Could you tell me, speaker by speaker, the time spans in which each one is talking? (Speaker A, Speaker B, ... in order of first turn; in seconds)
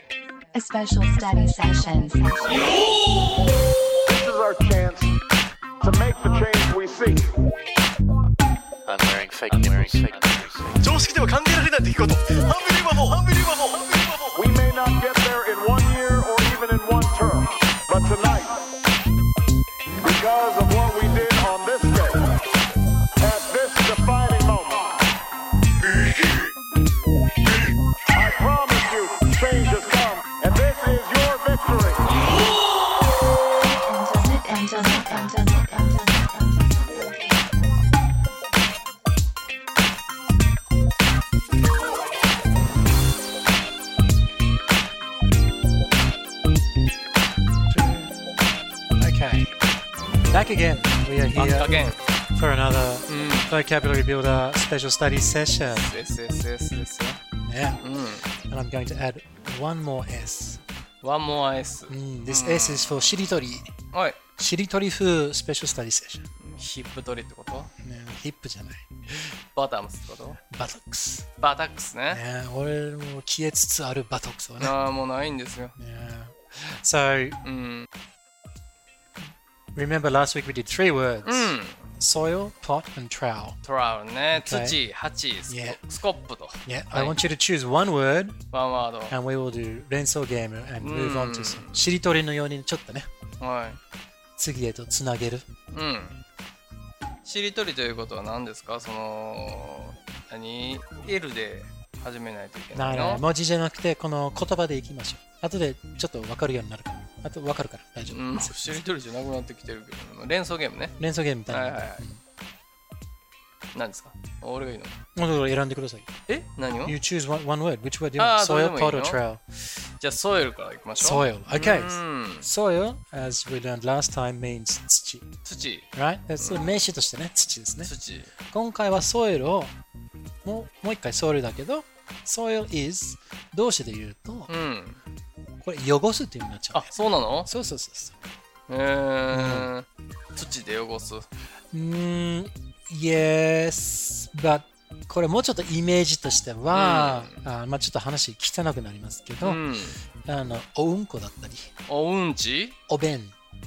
Speaker A: 0.5-3.0, 33.6-37.5
Speaker B: 4.1-5.2, 5.8-7.3, 14.3-18.7, 20.0-22.4, 23.2-25.0, 28.1-32.1
Speaker C: 8.9-11.1
Speaker D: 10.8-14.4
Speaker E: 47.7-48.1, 49.0-49.5, 50.3-55.9, 57.4-57.8, 58.5-60.6, 61.9-63.7, 64.4-66.3, 67.8-68.9, 70.5-71.3, 72.1-74.8, 75.8-77.4, 79.8-83.6, 84.3-84.8, 85.5-85.8, 86.7-88.4, 89.1-93.1, 94.4-95.5, 102.7-108.8, 111.0-112.2, 115.2-116.1, 116.8-119.4, 121.0-125.3, 125.9-127.9, 128.5-129.7, 130.4-134.5, 135.6-138.2, 139.3-139.7, 141.7-149.6, 150.2-151.7, 152.9-153.3
Speaker F: 51.4-52.0, 53.1-53.5, 55.7-57.2, 57.8-58.3, 61.0-63.2, 63.9-64.2, 66.4-67.7, 69.5-70.4, 71.4-72.2, 74.6-75.8, 77.4-77.9, 81.2-81.9, 83.6-87.2, 88.5-89.2, 90.8-91.8, 93.4-93.8, 95.7-96.2, 97.2-103.2, 108.1-111.0, 111.5-112.0, 113.7-115.0, 116.3-117.0, 118.2-122.5, 125.5-126.8, 127.8-128.3, 134.5-135.0, 136.7-137.5, 138.7-141.3, 146.7-147.4, 149.4-150.0, 151.9-152.8